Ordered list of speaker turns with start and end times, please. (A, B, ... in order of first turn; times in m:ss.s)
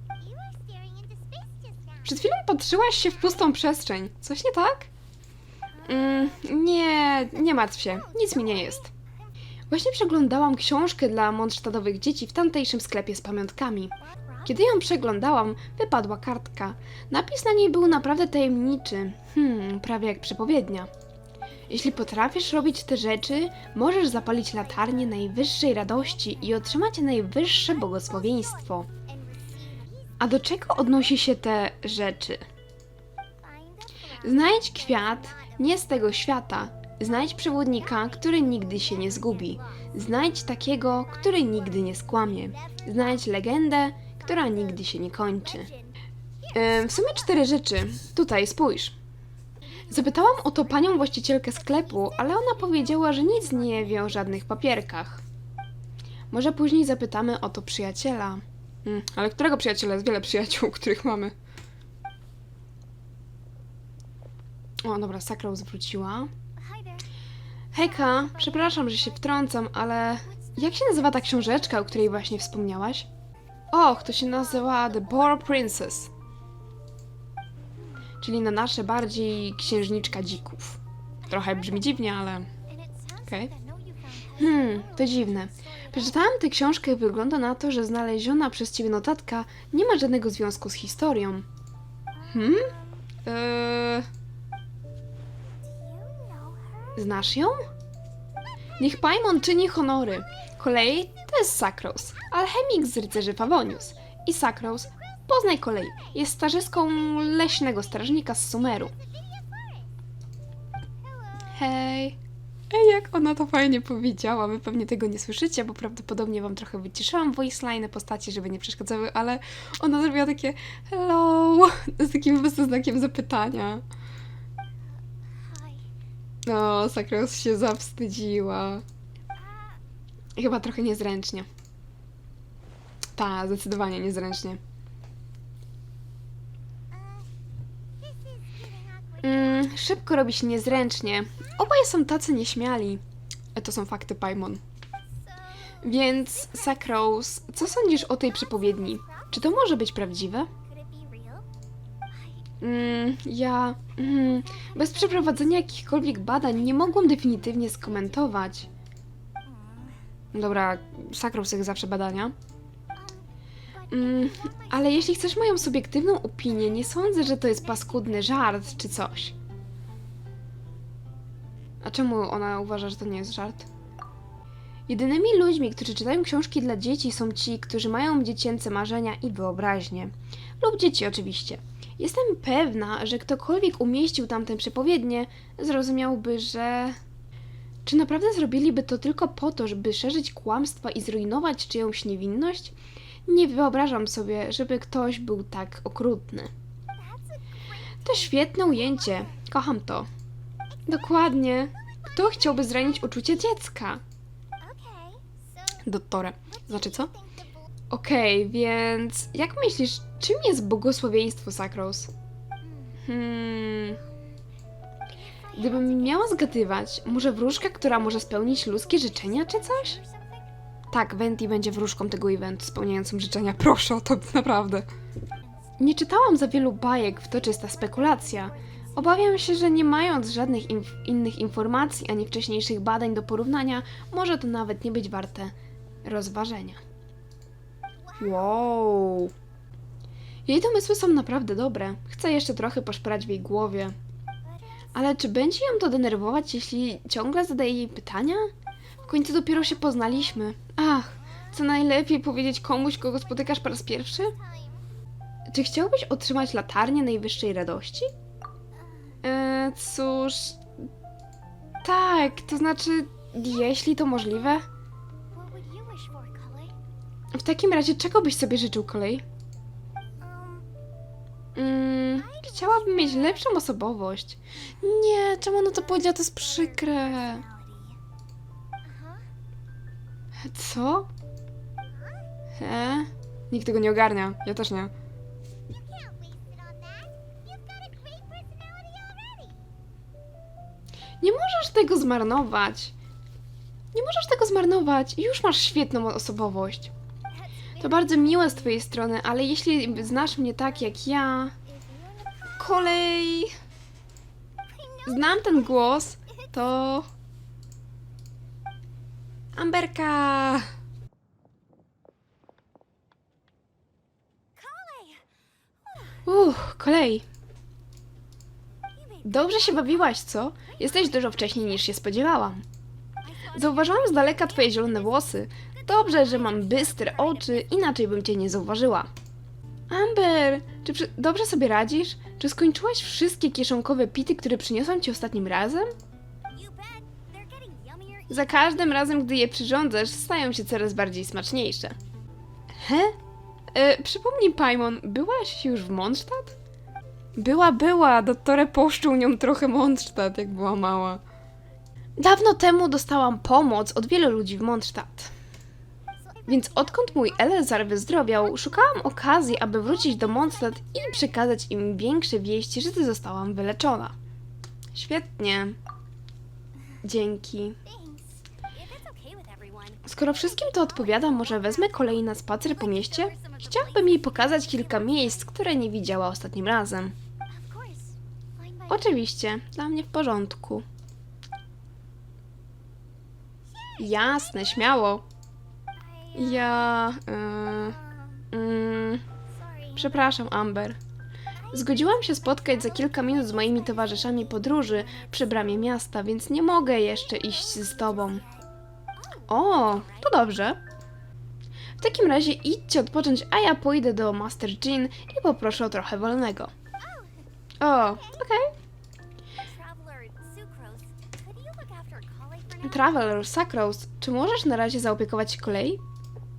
0:00.2-0:02.3 A
0:02.0-0:04.9 B
0:03.0-0:03.5 A
0:05.8-0:06.4 A
0:05.9-0:08.9 B
0:07.3-0:09.3 A
0:09.7-0:13.9 B
0:14.0-0:14.6 A
0:14.4-0:20.9 B
0:21.7-0:22.5 A
0:21.7-0:28.9 B
0:24.1-0:31.4 A
0:30.2-0:32.4 B
0:33.4-0:36.2 A
0:34.2-0:45.7 B
0:37.3-0:39.9 A
0:40.9-0:43.4 A
0:44.2-0:47.6 A
0:46.5-0:49.0 B
0:49.6-0:54.5 A
0:49.9-0:55.2 B
0:56.3-1:01.3 B
1:04.8-1:06.3 B
1:06.6-1:07.1 A
1:07.7-1:13.1 B
1:07.8-1:09.5 A
1:10.3-1:12.0 A
1:13.7-1:16.1 B
1:17.8-1:18.1 A
1:18.2-1:22.5 B
1:21.2-1:22.0 A
1:22.7-1:26.3 A
1:24.4-1:31.5 B
1:32.2-1:33.0 A
1:32.3-1:32.7 B
1:33.2-1:34.1 B
1:35.6-1:37.1 A
1:37.0-1:37.6 B
1:38.8-1:48.9 B
1:38.8-1:39.2 A
1:43.3-1:44.2 A
1:45.8-1:46.2 A
1:47.1-1:49.9 A
1:51.0-1:51.6 A
1:51.5-1:52.2 B
1:52.7-2:03.8 B
2:05.2-2:05.9 A
2:06.5-2:08.8 B
2:09.4-2:09.8 A
2:10.4-2:11.5 B
2:13.2-2:14.6 B
2:16.9-2:17.3 A
2:18.0-2:19.8 A
2:19.2-2:23.0 B
2:23.6-2:24.6 B
2:25.1-2:25.8 A
2:25.8-2:30.5 B
2:26.4-2:26.8 A
2:27.7-2:29.7 A
2:30.6-2:31.5 A
2:32.1-2:32.5 A
2:32.6-2:38.7 B
2:34.3-2:38.4 A
2:39.4-2:40.0 A
2:40.3-2:42.3 B
2:43.0-2:49.2 A
2:43.9-2:49.3 B
2:51.8-2:53.7 B
2:54.9-3:07.0 B
3:07.9-3:12.8 B
3:13.3-3:16.5 B
3:17.0-3:19.4 A
3:18.0-3:20.1 B
3:20.7-3:23.5 A
3:20.9-3:24.0 B
3:24.6-3:25.8 A
3:25.8-3:27.1 B
3:26.5-3:27.7 A
3:27.9-3:32.1 B
3:32.6-3:33.0 A
3:33.0-3:34.0 B
3:34.0-3:34.4 A
3:35.1-3:40.5 A
3:35.6-3:40.0 B
3:40.9-3:44.9 B
3:45.8-3:55.5 B
3:47.1-3:49.8 A
3:56.0-3:56.8 B
3:58.0-3:58.6 A
3:58.2-3:59.3 B
4:00.5-4:04.0 B
4:04.4-4:05.1 A
4:04.9-4:08.5 B
4:09.1-4:14.3 B
4:13.0-4:14.8 A
4:15.5-4:18.1 B
4:18.8-4:19.1 A
4:19.2-4:20.6 B
4:21.8-4:24.6 B
4:25.3-4:26.8 A
4:27.3-4:29.2 B
4:30.2-4:30.7 A
4:31.6-4:37.4 B
4:32.2-4:33.5 A
4:35.7-4:38.0 A
4:38.8-4:39.3 A
4:40.5-4:41.1 B
4:41.9-4:42.2 A
4:42.6-4:44.9 B
4:45.7-4:49.6 A
4:51.2-4:52.9 B
4:53.9-4:56.9 B
4:57.3-4:58.8 A
4:57.8-5:01.6 B
5:01.7-5:03.2 A
5:02.6-5:03.5 B
5:04.7-5:05.8 A
5:05.1-5:07.1 B
5:09.6-5:10.7 B
5:14.6-5:15.2 A
5:15.8-5:16.2 A
5:16.3-5:17.2 B
5:19.0-5:21.7 A
5:19.2-5:22.6 B
5:23.2-5:27.9 A
5:23.5-5:29.1 B
5:29.9-5:35.9 B
5:36.5-5:39.1 A
5:38.3-5:42.0 B
5:42.8-5:43.2 B
5:43.7-5:46.6 B
5:47.4-5:51.2 B
5:52.2-5:55.3 B
5:56.2-5:59.1 A
5:56.5-6:04.2 B
5:59.7-6:01.3 A
6:04.9-6:05.8 B
6:07.0-6:07.8 B
6:07.8-6:15.5 A
6:10.0-6:17.2 B
6:17.5-6:19.2 A
6:18.9-6:20.8 B
6:23.7-6:24.8 A
6:24.0-6:25.2 B
6:26.0-6:26.9 A
6:26.3-6:28.0 B
6:28.0-6:28.4 A
6:28.5-6:29.2 B
6:29.5-6:30.3 A
6:30.0-6:31.0 B
6:31.6-6:35.8 A
6:31.7-6:38.4 B
6:37.1-6:40.4 A
6:39.5-6:40.8 B
6:42.0-6:46.7 B
6:47.0-6:47.5 A
6:47.8-6:48.7 B
6:48.0-6:48.4 A
6:49.6-6:53.4 A
6:52.8-6:56.0 B